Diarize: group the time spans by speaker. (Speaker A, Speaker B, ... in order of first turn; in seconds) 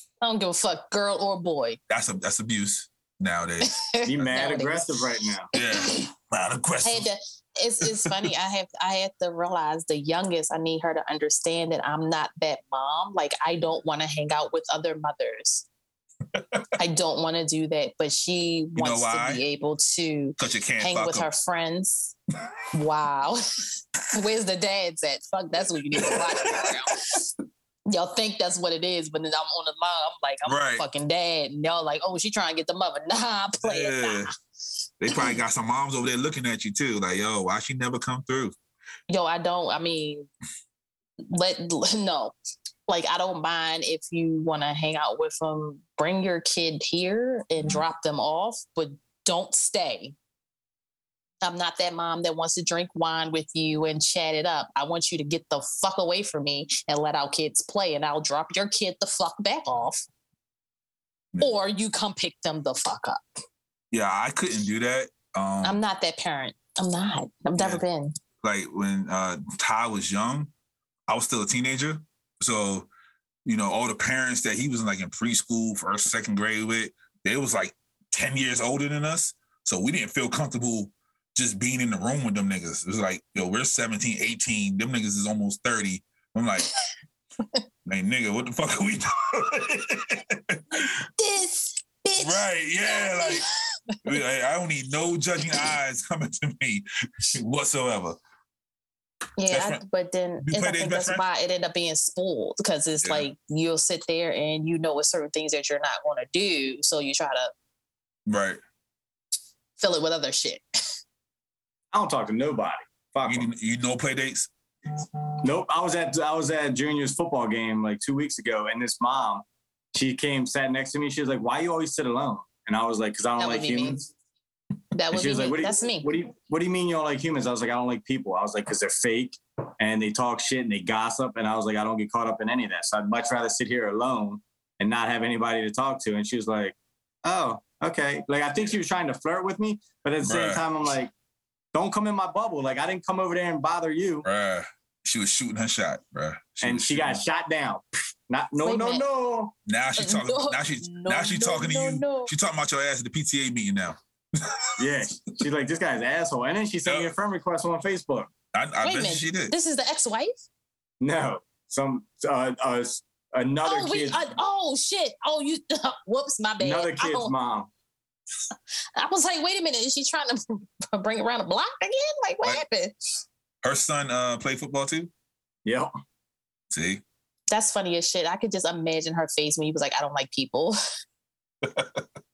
Speaker A: 0.2-1.8, 3.6-4.9, 5.5-6.1, 6.8-15.7, 16.8-22.1, 22.7-27.3, 27.9-34.3, 35.1-35.4, 39.1-40.3, 41.3-42.3, 42.9-50.1, 51.4-60.0, 61.4-63.2, 65.6-68.1, 90.7-94.0, 99.4-107.5, 109.8-110.6, 123.4-124.0, 124.9-126.1, 148.6-149.0, 150.0-152.3, 158.8-160.4, 163.6-167.3, 168.9-172.9, 177.5-180.8
Speaker B: 1.9-4.5, 5.5-7.1, 7.8-8.3, 16.3-16.6, 18.8-19.4, 20.4-21.3, 25.9-26.7, 30.4-30.8, 33.6-34.3, 35.0-38.5, 63.9-65.8, 67.6-67.8, 68.4-70.5, 71.1-72.9, 73.4-86.7, 87.8-90.6, 92.2-93.5, 94.0-98.2, 99.5-99.8, 100.4-101.2, 103.0-103.3, 108.3-108.6, 113.3-114.5, 140.2-140.6, 144.2-147.2, 149.7-155.0, 158.5-159.5, 173.6-175.1, 176.7-177.0, 181.6-182.1
Speaker C: 4.0-5.5, 111.9-113.5, 115.4-124.1, 125.1-141.1, 141.7-144.2, 146.6-149.5, 154.8-158.3, 161.0-164.2, 166.6-167.7, 175.6-175.9